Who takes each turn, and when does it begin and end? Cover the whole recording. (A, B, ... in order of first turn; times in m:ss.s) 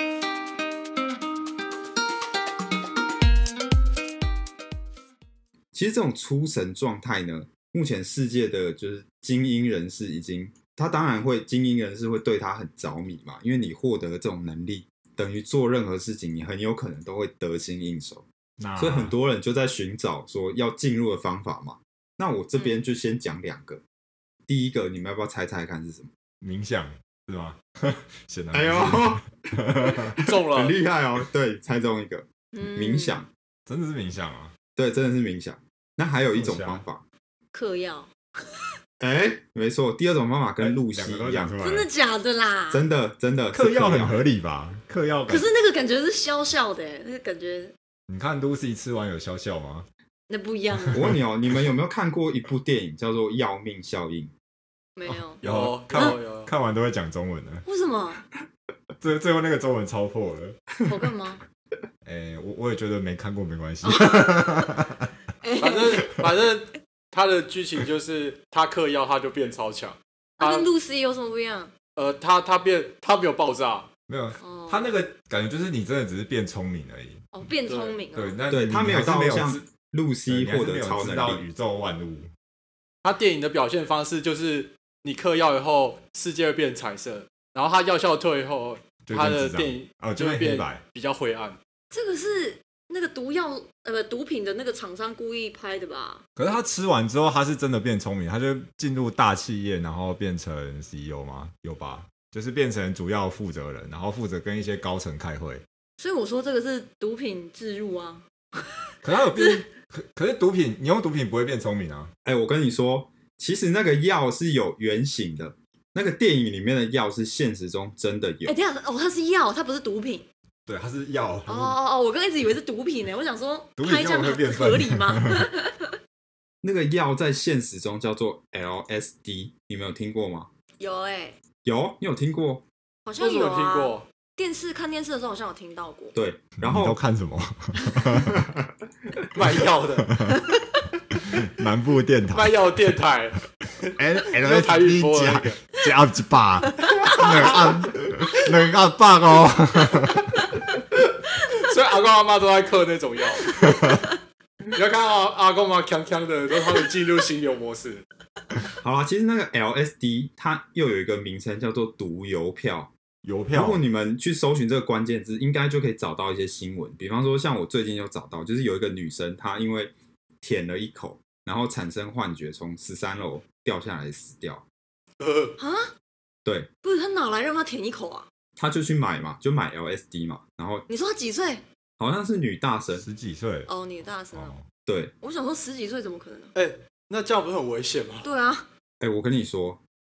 0:05.7-0:18.2 A
0:18.6-0:19.1 B
0:18.8-0:23.8 A
0:24.5-0:26.1 A
0:26.4-0:30.1 B
0:28.5-0:33.3 A
0:30.2-0:30.8 C
0:32.5-0:33.2 D
0:33.7-0:34.5 B
0:34.8-0:37.0 A
0:36.3-0:36.8 B
0:37.5-0:38.6 D
0:39.0-0:41.6 A
0:40.6-0:41.9 B
0:41.6-0:42.8 D
0:42.7-0:44.2 A
0:43.5-0:45.5 B
0:45.3-0:47.7 D
0:48.1-0:49.9 B
0:50.3-0:51.0 D
0:50.9-0:54.3 A
0:55.0-0:55.4 D
0:55.1-0:57.6 B
0:55.4-0:56.5 C
0:55.9-0:56.2 D
0:57.6-0:58.2 D
0:59.0-1:00.6 B
1:00.8-1:01.4 D
1:02.0-1:05.1 B
1:03.8-1:04.8 D
1:05.4-1:06.2 D
1:05.6-1:10.7 C
1:10.4-1:11.7 D
1:12.0-1:13.9 C
1:14.1-1:17.3 B
1:14.4-1:14.9 D
1:17.3-1:18.4 D
1:17.7-1:18.0 C
1:18.1-1:19.6 B
1:18.5-1:21.4 A
1:20.2-1:22.3 B
1:23.0-1:31.6 C
1:29.0-1:30.8 B
1:31.9-1:36.2 D
1:36.4-1:45.6 B
1:46.0-1:48.8 D
1:49.0-1:52.1 B
1:52.2-1:58.6 A
1:58.4-2:00.3 D
2:00.7-2:01.8 B
2:01.5-2:06.0 D
2:03.8-2:05.4 B
2:06.6-2:10.5 A
2:10.8-2:11.4 D
2:11.6-2:12.6 A
2:13.0-2:16.1 D
2:13.2-2:14.0 C
2:16.1-2:17.0 A
2:16.6-2:18.4 B
2:19.3-2:20.1 C
2:20.1-2:20.4 B
2:21.1-2:22.8 B
2:22.3-2:25.6 C
2:24.0-2:30.5 B
2:27.2-2:27.5 D
2:31.4-2:33.5 C
2:33.6-2:34.1 B
2:34.7-2:38.0 C
2:38.8-2:42.9 A
2:43.2-2:43.8 B
2:43.5-2:54.6 A
2:55.2-2:55.5 C
2:55.6-2:55.9 D
2:56.4-2:56.7 A
2:56.8-2:58.3 D
2:58.6-3:00.8 A
3:00.9-3:01.6 D
3:02.0-3:03.0 A
3:03.0-3:03.7 B
3:03.6-3:04.5 D
3:04.3-3:04.7 B
3:04.8-3:05.1 A
3:05.2-3:06.5 D
3:06.5-3:08.3 C
3:08.2-3:08.6 D
3:09.0-3:09.8 A